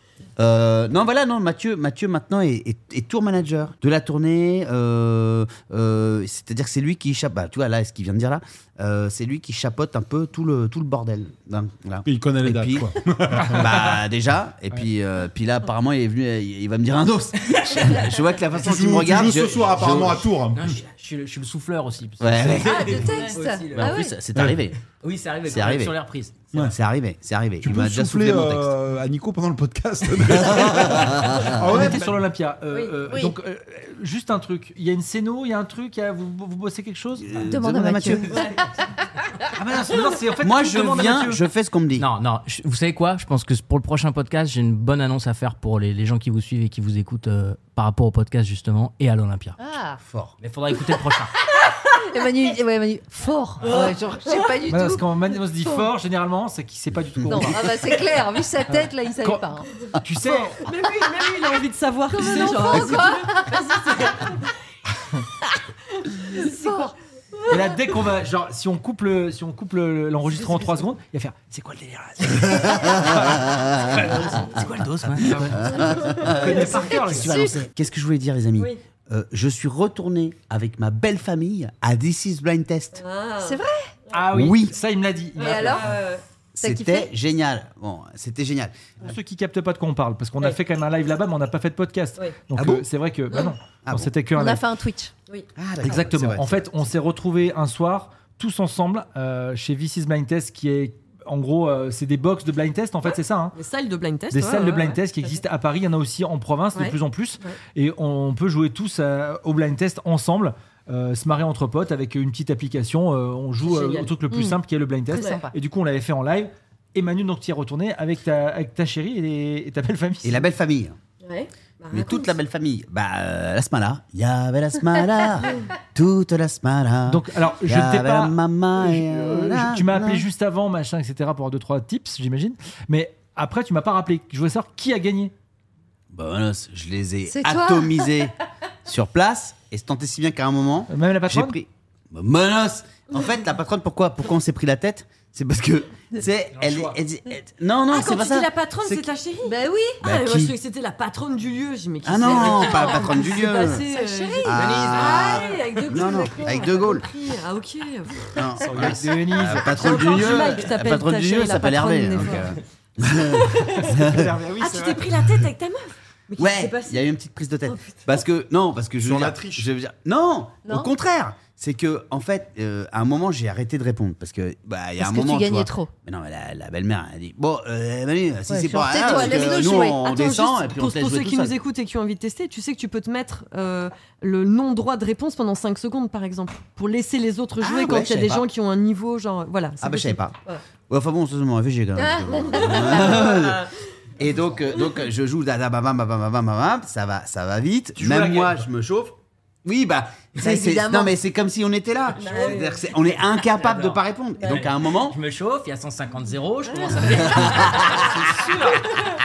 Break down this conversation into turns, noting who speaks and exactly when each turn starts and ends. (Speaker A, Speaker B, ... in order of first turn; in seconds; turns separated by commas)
Speaker A: 0.4-20.3, Speaker B: 12.1-13.9, Speaker C: 17.4-18.0, Speaker B: 18.6-20.8, Speaker C: 20.5-24.0, Speaker A: 22.2-23.2, Speaker D: 22.6-24.2, Speaker A: 23.8-24.8, Speaker B: 24.4-24.6, Speaker C: 24.9-26.4, Speaker A: 25.4-25.9, Speaker A: 26.7-28.7, Speaker B: 27.6-32.2, Speaker A: 30.5-31.5, Speaker E: 31.6-37.4, Speaker D: 33.1-33.3, Speaker A: 37.2-38.4, Speaker D: 37.4-38.5, Speaker E: 39.5-41.4, Speaker A: 40.4-42.1, Speaker C: 42.0-49.6, Speaker D: 49.6-50.0, Speaker A: 50.0-50.3, Speaker C: 50.4-51.3, Speaker D: 52.1-55.0, Speaker F: 53.6-54.0, Speaker E: 54.7-57.7, Speaker A: 57.2-57.5, Speaker D: 57.3-59.7, Speaker E: 58.7-60.6, Speaker F: 60.2-64.5, Speaker D: 62.1-63.5, Speaker F: 66.3-66.9, Speaker D: 66.3-66.9, Speaker E: 67.5-77.4, Speaker A: 72.7-74.2, Speaker C: 74.6-75.6, Speaker A: 75.2-83.0, Speaker D: 77.2-77.5, Speaker F: 83.0-83.6, Speaker D: 83.4-83.9, Speaker E: 84.1-85.9, Speaker A: 84.3-84.8, Speaker F: 85.4-86.2, Speaker D: 85.4-85.9, Speaker A: 86.6-88.8, Speaker D: 86.6-87.1, Speaker E: 89.0-94.6, Speaker A: 92.6-92.9, Speaker A: 93.8-94.1, Speaker D: 94.3-95.1, Speaker A: 95.6-96.7, Speaker E: 95.8-103.6, Speaker F: 103.5-105.3, Speaker E: 104.3-120.5, Speaker F: 106.8-107.6, Speaker F: 113.6-114.1, Speaker D: 114.3-114.6, Speaker D: 115.1-115.5, Speaker F: 115.1-115.4, Speaker A: 120.2-121.0, Speaker F: 121.2-122.3, Speaker A: 121.9-130.2, Speaker E: 127.1-135.3, Speaker A: 136.1-138.3, Speaker D: 137.3-138.1, Speaker A: 138.8-149.1, Speaker E: 140.9-141.6, Speaker F: 147.9-158.4, Speaker D: 149.4-150.0, Speaker A: 150.0-150.6, Speaker A: 152.0-153.8, Speaker D: 152.7-153.1, Speaker D: 153.8-154.6, Speaker A: 154.4-157.1, Speaker C: 154.5-155.6, Speaker A: 158.3-164.3, Speaker E: 158.6-160.2, Speaker F: 159.5-162.6, Speaker F: 163.2-163.9, Speaker E: 163.7-165.1, Speaker F: 164.6-167.0, Speaker A: 166.4-181.6, Speaker F: 167.7-168.2, Speaker B: 169.0-169.7, Speaker D: 175.0-175.9, Speaker D: 178.5-180.1, Speaker F: 179.1-190.6, Speaker A: 187.6-188.5, Speaker A: 189.8-190.3, Speaker A: 190.9-193.7, Speaker D: 192.0-193.1, Speaker F: 192.4-193.7, Speaker A: 194.2-205.2, Speaker E: 198.0-198.6, Speaker D: 200.4-201.1, Speaker F: 202.2-202.8, Speaker C: 203.4-208.4, Speaker F: 206.7-207.0, Speaker A: 207.1-208.1, Speaker E: 208.1-208.8